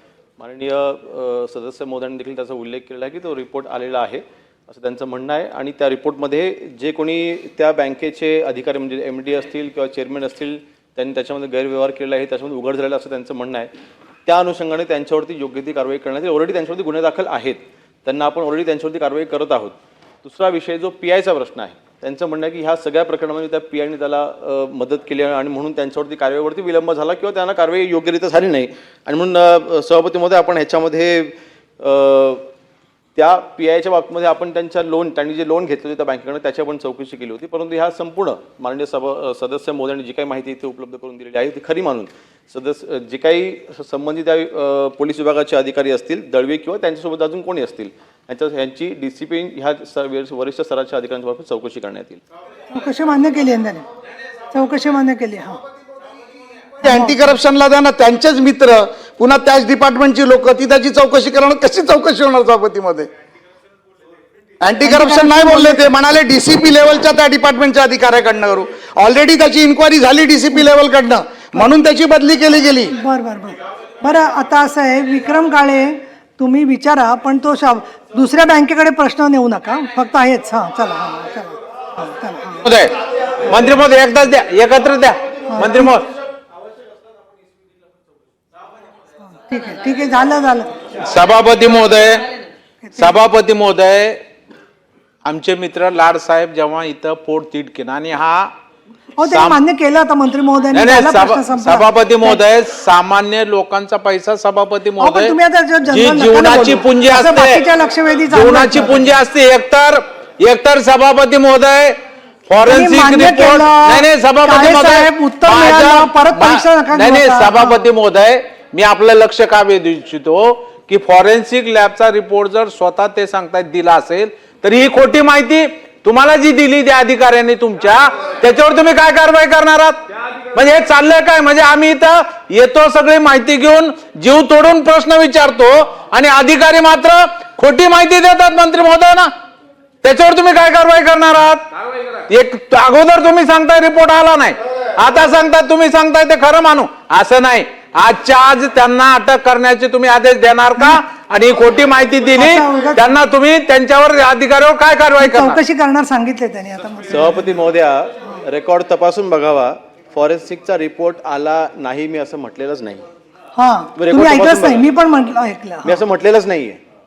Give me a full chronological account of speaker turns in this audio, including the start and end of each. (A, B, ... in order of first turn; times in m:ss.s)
0:00.4-0:13.7 A
0:14.2-0:32.5 A
0:33.1-0:52.2 A
0:52.7-0:53.8 B
0:54.5-0:55.6 B
0:56.8-1:03.1 C
0:56.8-0:57.2 B
1:04.6-1:12.9 C
1:04.8-1:05.8 B
1:12.9-1:22.6 B
1:22.6-1:26.1 D
1:25.5-1:25.9 B
1:29.3-1:30.8 B
1:31.0-1:32.3 D
1:33.0-1:34.2 D
1:35.2-1:38.5 D
1:39.2-1:42.4 B
1:39.3-1:39.6 D
1:40.7-1:45.3 D
1:45.0-1:49.1 B
1:45.9-1:47.6 D
1:48.3-2:19.3 D
1:52.6-1:57.9 B
2:20.0-2:21.6 D
2:22.3-2:35.6 D
2:32.4-2:33.0 B
2:35.2-2:37.4 B
2:37.1-2:43.0 A
2:43.6-2:46.0 B
2:43.9-2:44.9 A
2:45.8-2:46.8 A